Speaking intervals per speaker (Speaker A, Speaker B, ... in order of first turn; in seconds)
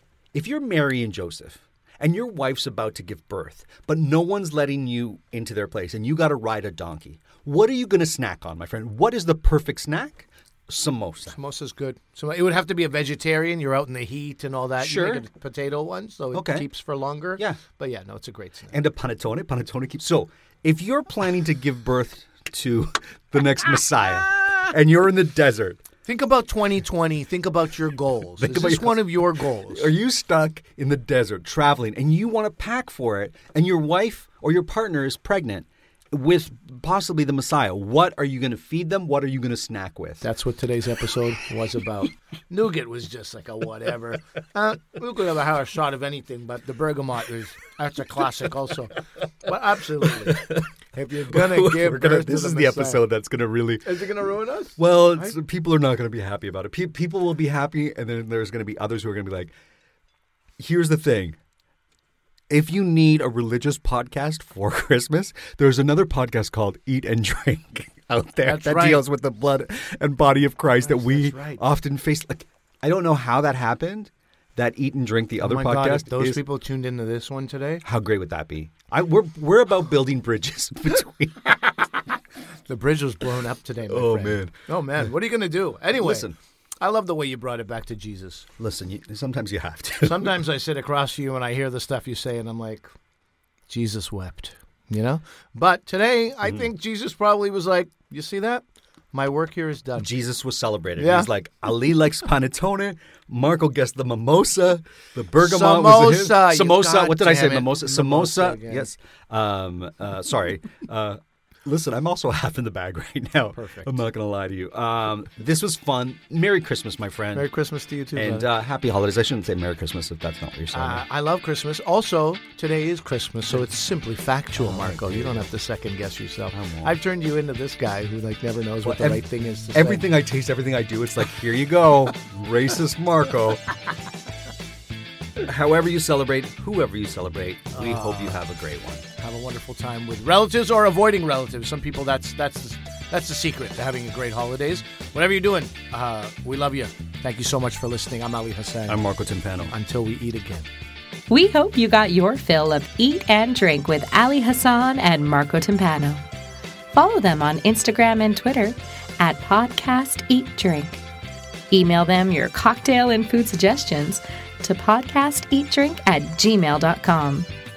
Speaker A: 0.3-11.4, 14.8-15.2, 16.3-16.7, 18.7-25.8, 28.4-40.2, 50.0-50.6, 51.3-54.0, 54.8-59.5, 60.6-61.4, 62.5-76.4, 77.8-81.8, 83.9-84.6, 86.0-86.4, 88.6-90.4, 100.0-117.5, 118.1-121.0, 124.6-125.5, 126.5-127.0, 128.8-133.6, 135.4-139.1, 148.9-149.7
Speaker B: 11.3-18.8, 26.1-29.9, 40.2-53.0, 53.8-55.4, 68.4-69.0, 70.8-71.6, 75.4-77.8, 82.7-88.5, 90.0-92.9, 93.7-100.1, 101.0-101.3, 105.4-108.9, 113.5-114.0, 117.3-118.5, 120.7-130.1, 137.7-138.4, 139.2-149.0, 149.7-150.7
Speaker C: 151.3-156.2, 156.9-161.0, 161.7-167.5